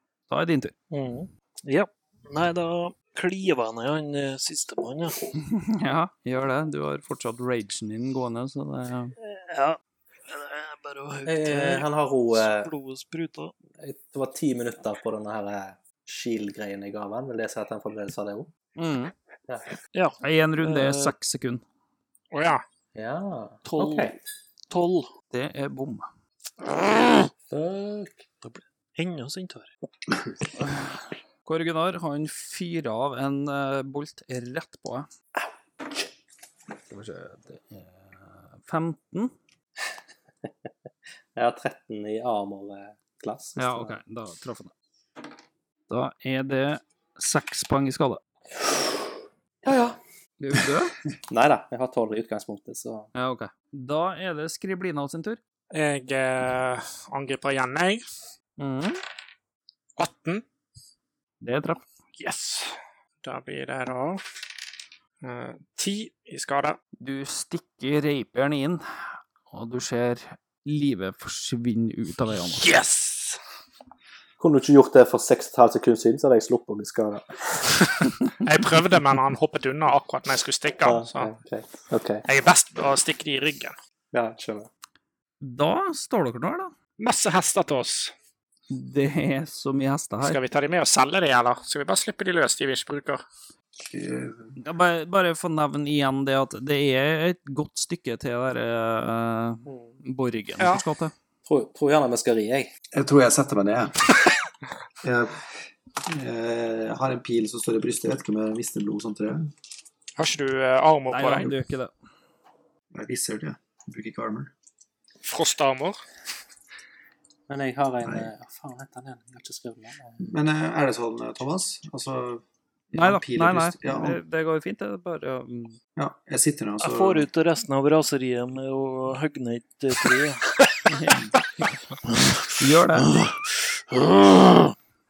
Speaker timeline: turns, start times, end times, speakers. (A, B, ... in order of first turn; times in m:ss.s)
0:00.3-0:00.7 A
0:00.9-0:05.2 B
0:05.4-0:09.1 A
0:09.2-0:13.6 B
0:11.3-0:12.7 C
0:13.8-0:18.5 C
0:18.8-0:19.1 A
0:19.5-0:19.8 C
0:19.9-0:21.1 B
0:20.2-0:21.6 A
0:22.3-0:22.6 D
0:23.0-0:24.2 C
0:23.7-0:24.2 B
0:24.7-0:25.1 B
0:25.3-0:26.1 A
0:27.5-0:28.2 C
0:28.4-0:29.7 B
0:31.5-0:35.1 A
0:36.9-0:39.3 A
0:41.4-0:44.0 C
0:43.6-0:44.7 A
0:45.9-0:48.2 A
0:49.6-0:50.0 C
0:50.4-0:51.0 A
0:51.3-0:53.1 C
0:53.2-0:55.4 A
0:55.7-0:58.0 D
0:58.6-0:59.0 A
1:00.0-1:00.4 D
1:01.4-1:01.8 A
1:02.2-1:04.3 D
1:05.2-1:06.8 D
1:07.0-1:12.7 A
1:12.5-1:13.4 D
1:14.4-1:17.8 C
1:18.4-1:21.3 D
1:20.8-1:22.2 C
1:22.3-1:23.8 D
1:24.1-1:24.7 C
1:25.4-1:26.7 A
1:27.0-1:28.1 D
1:28.7-1:30.4 A
1:30.2-1:33.2 D
1:33.8-1:34.6 E
1:34.6-1:41.1 A
1:39.7-1:40.0 C
1:41.5-1:42.7 C
1:42.9-1:44.0 E
1:45.0-1:49.5 E
1:50.2-1:51.6 D
1:51.1-1:51.9 A
1:52.9-1:54.5 E
1:55.2-1:56.0 D
1:57.5-2:00.3 C
1:58.0-1:58.3 E
2:00.2-2:04.2 E
2:02.9-2:05.8 A
2:06.0-2:07.3 E
2:06.8-2:10.5 B
2:10.9-2:11.7 A
2:12.6-2:13.1 A
2:13.1-2:14.7 B